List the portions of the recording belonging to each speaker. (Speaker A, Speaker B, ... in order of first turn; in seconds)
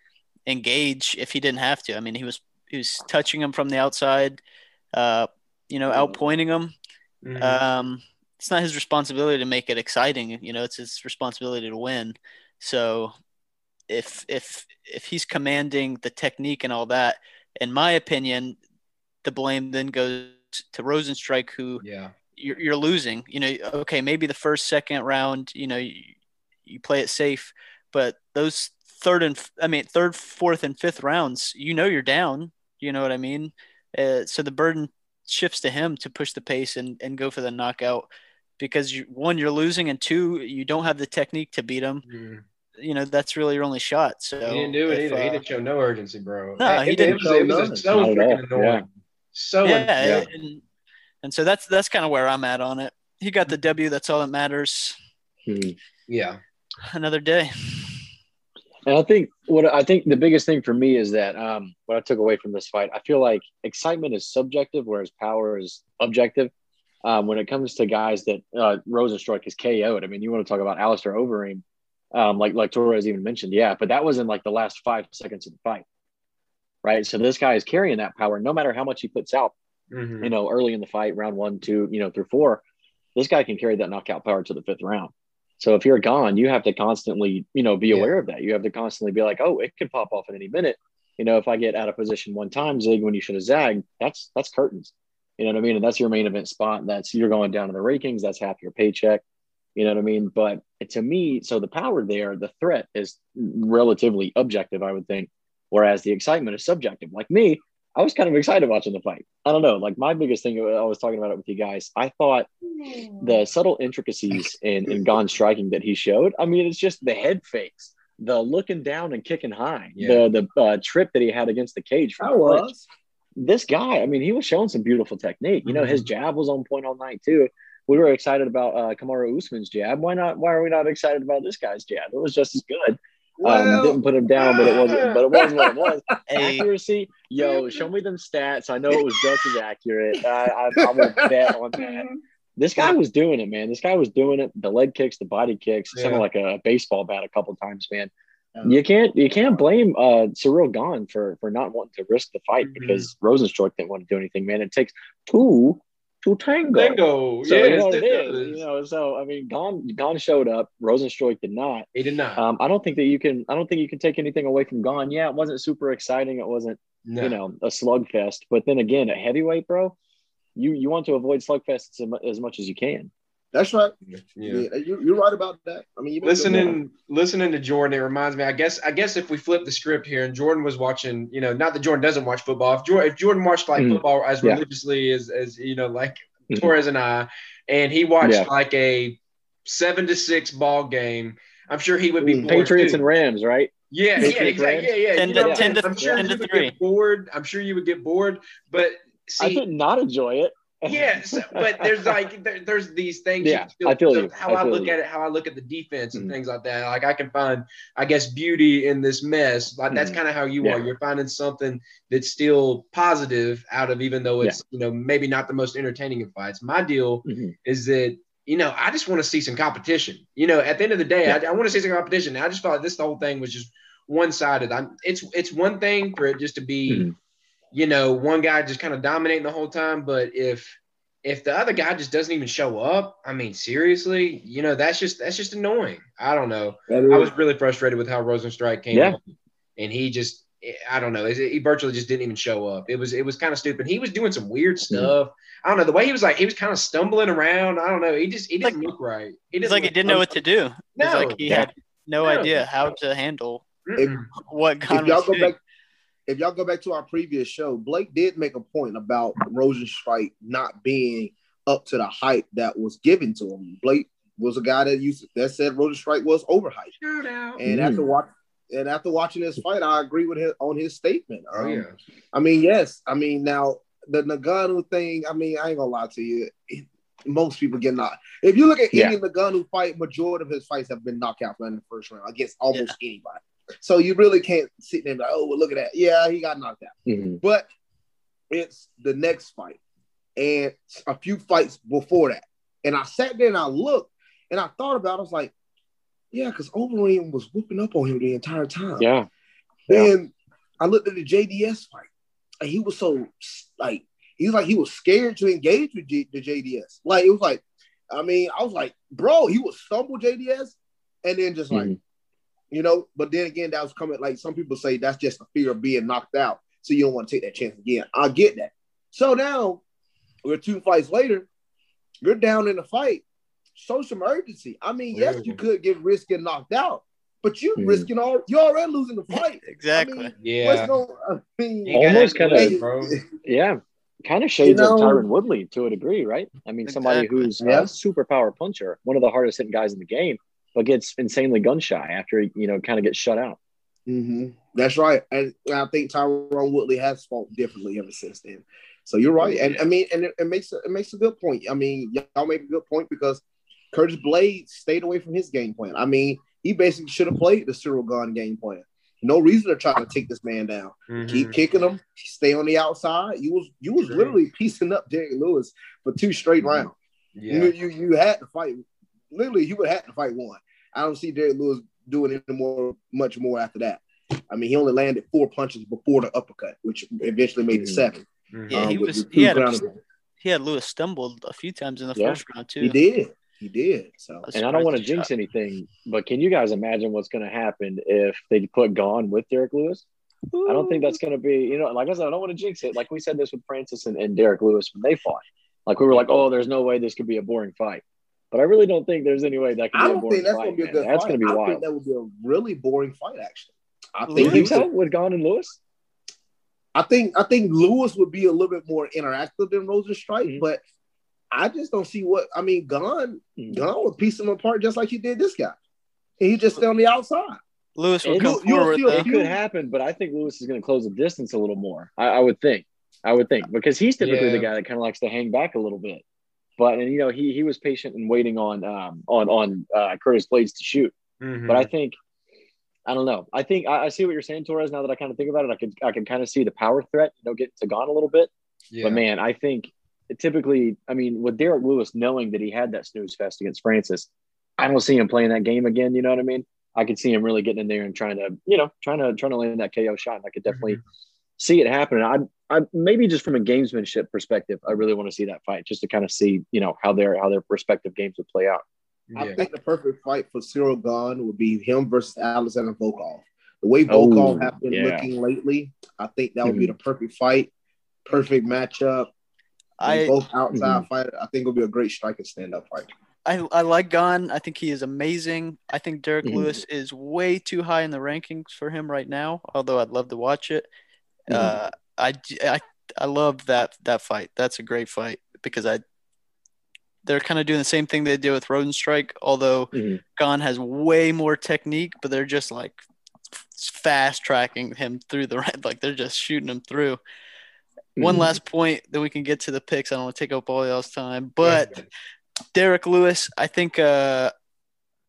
Speaker A: 0.5-4.4, 4.9-6.7, 7.4-13.1, 13.9-18.6, 19.2-21.8, 22.4-26.1, 26.6-38.1, 38.6-42.0, 42.8-45.4, 46.6-47.2, 49.6-50.6, 51.2-55.0, 56.9-58.0, 136.3-136.7, 195.1-196.7, 248.6-248.9, 249.6-253.6, 254.5-255.5, 329.3-330.3, 336.9-337.5, 378.7-379.8, 380.4-383.0, 384.4-385.3, 390.5-391.1, 404.2-404.7, 417.9-419.3, 470.0-470.4, 473.4-480.9, 481.5-486.0, 487.2-493.0, 493.8-497.2, 498.2-501.9, 502.7-504.5
Speaker B: 7.2-7.6, 21.8-22.1, 42.0-42.4, 44.4-50.3, 56.1-56.4, 79.9-80.3, 120.0-120.2, 134.6-135.2, 141.8-142.2, 145.9-146.2, 152.6-153.1, 156.7-158.6, 161.9-162.4, 167.1-167.4, 174.1-174.6, 176.2-193.0, 193.9-199.6, 200.8-227.1, 227.7-239.2, 239.8-250.3, 251.0-251.6, 252.2-252.6, 253.8-254.3, 267.0-267.6, 271.5-271.9, 325.1-325.6, 330.4-330.9, 331.8-333.1, 349.4-349.8, 361.1-361.6, 364.0-364.3, 366.6-367.7, 378.5-378.9, 424.2-424.7, 431.4-431.9, 438.9-439.2, 450.7-451.0, 459.3-459.6, 501.6-502.1
Speaker C: 46.7-47.8, 122.2-122.8, 133.4-136.0, 137.4-137.8, 138.9-139.5, 140.8-141.5, 148.6-148.8, 173.5-176.7, 192.2-192.7, 236.9-237.3, 254.9-255.6, 256.3-266.9, 267.6-287.7, 288.5-289.8, 290.4-295.5, 296.3-299.1, 299.9-302.1, 302.6-311.9, 312.7-319.8, 320.4-321.5, 322.2-323.2, 323.7-333.2, 334.6-335.2, 337.6-337.9, 344.1-366.9, 367.5-380.0, 382.8-384.5, 399.9-404.9, 406.9-410.8, 411.5-415.8, 416.4-417.6, 418.3-419.6, 459.4-467.7, 468.2-469.3, 470.0-473.1
Speaker D: 47.9-48.8, 55.5-55.8, 58.9-66.5, 67.0-75.8, 76.8-79.5, 80.2-82.6, 83.2-99.2, 99.8-112.5, 113.2-122.7, 123.4-142.1, 142.6-148.1, 148.6-169.9, 170.6-173.1, 183.8-184.6, 188.2-188.5, 192.4-196.2, 199.4-201.9, 203.4-204.9, 209.9-210.9, 217.2-217.5, 226.9-227.1, 244.9-245.1, 267.6-268.0, 287.1-287.4, 299.0-299.3, 311.7-312.0, 327.8-328.1, 331.9-332.7, 333.4-343.6, 377.7-378.1, 384.5-390.0, 390.6-401.8, 404.4-405.8, 413.6-413.9, 418.3-426.2, 426.8-431.1, 431.7-432.1, 433.1-438.5, 439.0-451.0, 451.6-458.8, 464.1-465.3, 466.6-466.9, 470.7-471.0, 476.4-476.8, 481.5-481.8, 489.9-490.2, 498.2-498.5